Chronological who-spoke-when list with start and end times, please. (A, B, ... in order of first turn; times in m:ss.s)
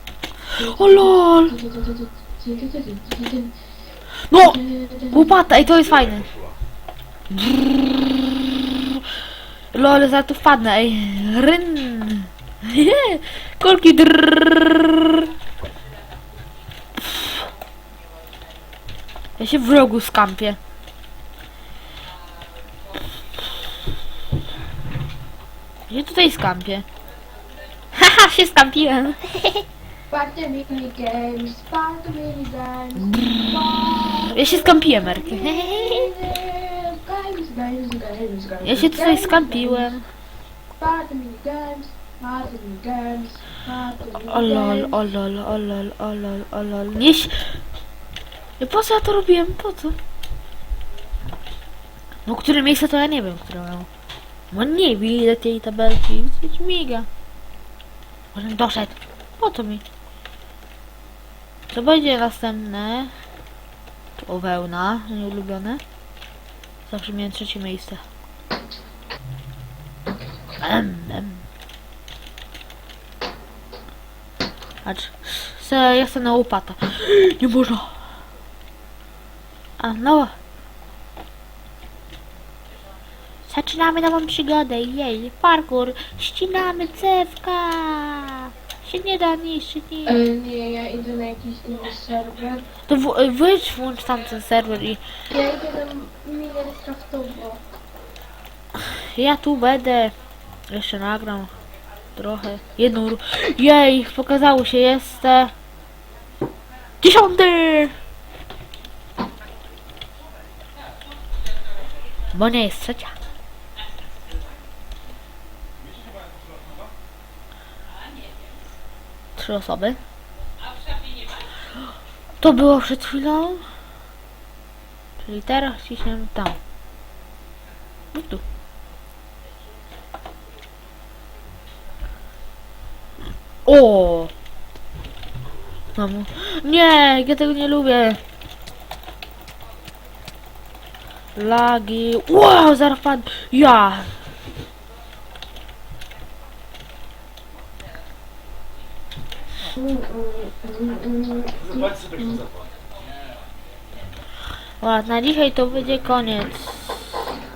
0:00.5-0:01.5 A
0:00.6-0:03.5 B
0:04.3-0:04.6 A
0:04.4-0:05.4 B
0:05.1-0:06.3 A
0:05.8-0:06.6 C
0:07.3-0:08.2 A
0:09.7-0:15.2 A
0:19.4-0:20.6 A
0:25.9-0:26.8 A
0:27.9-0:29.6 A
0:30.1-0:40.0 B
0:33.0-0:36.1 A
0:38.6-0:40.0 A
0:40.8-0:45.0 B
0:44.3-0:47.4 A
0:48.6-0:50.0 A
0:52.2-0:53.9 A
0:54.5-0:57.1 A
0:58.3-0:59.8 A
1:01.7-1:03.1 A
1:04.2-1:05.8 A
1:06.9-1:08.0 A
1:10.6-1:11.4 A
1:14.8-1:17.9 A
1:19.8-1:20.3 A
1:23.4-1:30.2 A
1:30.0-1:32.6 B
1:32.9-1:35.0 A
1:35.3-1:37.6 B
1:39.1-1:40.1 A
1:40.7-1:41.5 A
1:42.1-1:45.5 A
1:47.0-1:47.9 A
1:52.3-1:53.1 A
1:55.8-1:56.9 C
1:59.4-2:00.0 A
2:02.4-2:03.6 A
2:05.2-2:06.6 A
2:08.1-2:08.4 A
2:13.6-2:14.3 A
2:16.0-2:18.2 A
2:21.4-2:24.1 A
2:29.7-2:32.4 B
2:31.6-2:32.7 C
2:34.8-2:37.2 A